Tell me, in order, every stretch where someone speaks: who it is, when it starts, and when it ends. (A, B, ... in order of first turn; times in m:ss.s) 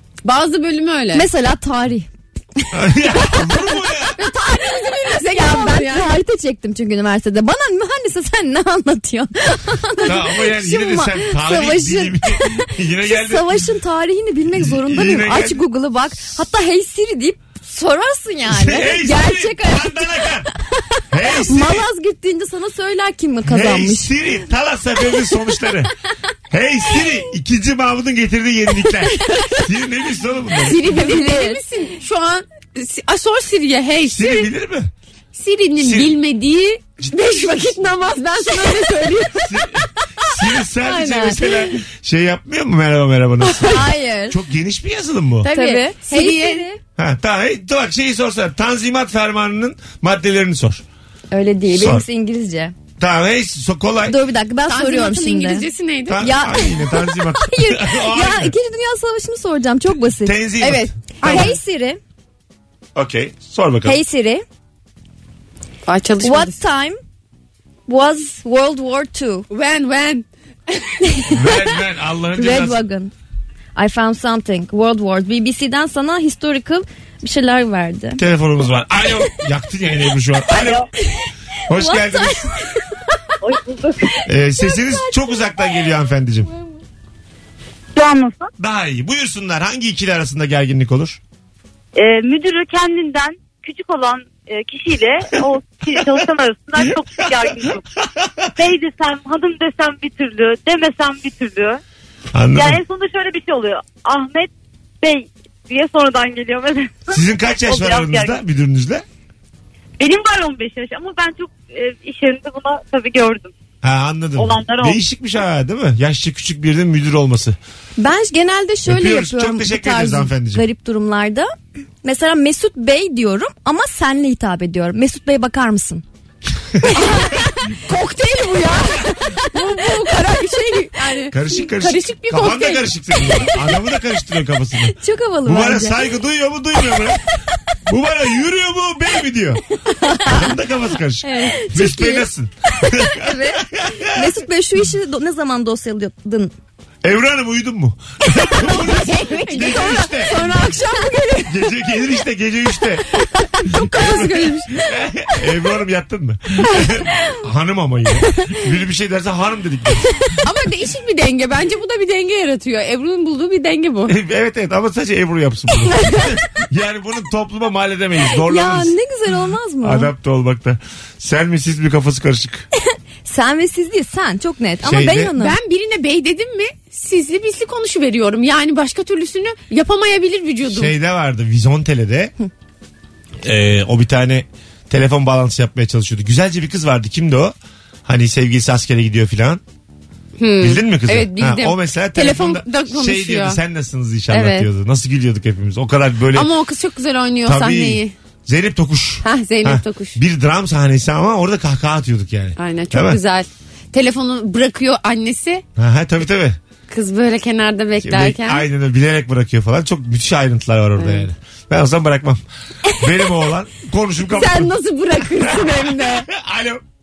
0:00.2-0:01.3 A
0:01.1-0:02.7 B
0:02.7-0:04.3 C
0:04.2-0:06.1 A
0:05.3-0:20.0 B
0:10.0-0:13.6 C
0:14.5-0:15.6 C
0:18.5-0:20.5 C
0:21.1-0:21.9 C
0:21.4-0:24.1 B
0:23.4-0:25.9 C
0:26.5-0:30.9 C
0:30.6-0:34.5 A
0:30.7-0:31.6 B
0:34.0-0:34.9 C
0:35.3-0:39.6 A
0:35.8-0:36.1 C
0:39.4-0:45.5 C
0:40.8-0:41.4 B
0:43.6-0:44.4 B
0:45.4-0:46.7 A
0:45.5-0:46.8 B
0:47.0-0:50.8 C
0:51.3-0:52.7 B
0:51.7-0:52.0 C
0:53.0-0:54.2 C
0:54.1-0:55.7 B
0:54.7-0:56.4 A
0:56.1-0:58.5 C
0:56.2-1:00.4 B
1:00.2-1:01.5 C
1:00.6-1:01.6 A
1:01.2-1:02.0 B
1:02.9-1:04.0 C
1:03.8-1:04.4 B
1:05.8-1:06.6 A
1:06.2-1:07.0 B
1:07.9-1:09.5 B
1:09.5-1:11.0 A
1:11.3-1:12.8 C
1:12.3-1:13.1 B
1:13.8-1:18.2 B
1:18.2-1:20.9 C
1:21.7-1:22.5 C
1:21.8-1:22.4 B
1:24.2-1:26.5 C
1:27.9-1:28.5 D
1:28.6-1:31.2 C
1:31.9-1:37.8 D
1:37.4-1:38.5 C
1:38.6-1:41.8 D
1:42.3-1:42.8 C
1:42.5-1:44.5 D
1:45.0-1:48.4 D
1:47.1-1:49.0 C
1:50.0-1:53.5 D
1:53.8-1:57.6 C
1:54.4-1:55.0 D
1:58.0-2:01.5 B
1:58.8-2:00.6 C
2:02.0-2:06.0 B
2:06.7-2:07.1 C
2:06.9-2:12.9 A
2:11.3-2:17.2 C
2:14.9-2:16.0 B
2:17.8-2:19.6 C
2:20.0-2:20.4 B
2:20.2-2:24.3 C
2:21.2-2:22.3 B
2:22.8-2:26.5 B
2:27.0-2:30.6 C
2:28.5-2:31.6 A
2:31.4-2:40.4 C
2:33.2-2:34.8 A
2:40.4-2:44.1 A
2:44.1-2:48.9 C
2:48.4-2:50.1 B
2:49.8-2:52.6 C
2:53.2-2:55.5 B
2:54.8-2:55.3 C
2:55.3-3:00.9 A
3:00.6-3:02.3 C
3:03.4-3:09.6 C
3:10.4-3:13.6 A
3:10.6-3:16.5 C
3:14.3-3:14.7 A
3:16.3-3:18.1 A
3:17.4-3:23.2 C
3:19.2-3:20.2 A
3:22.6-3:25.6 A
3:25.8-3:26.6 C
3:26.9-3:28.6 A
3:28.0-3:34.7 C
3:31.0-3:31.3 A
3:34.2-3:36.3 A
3:35.3-3:36.8 C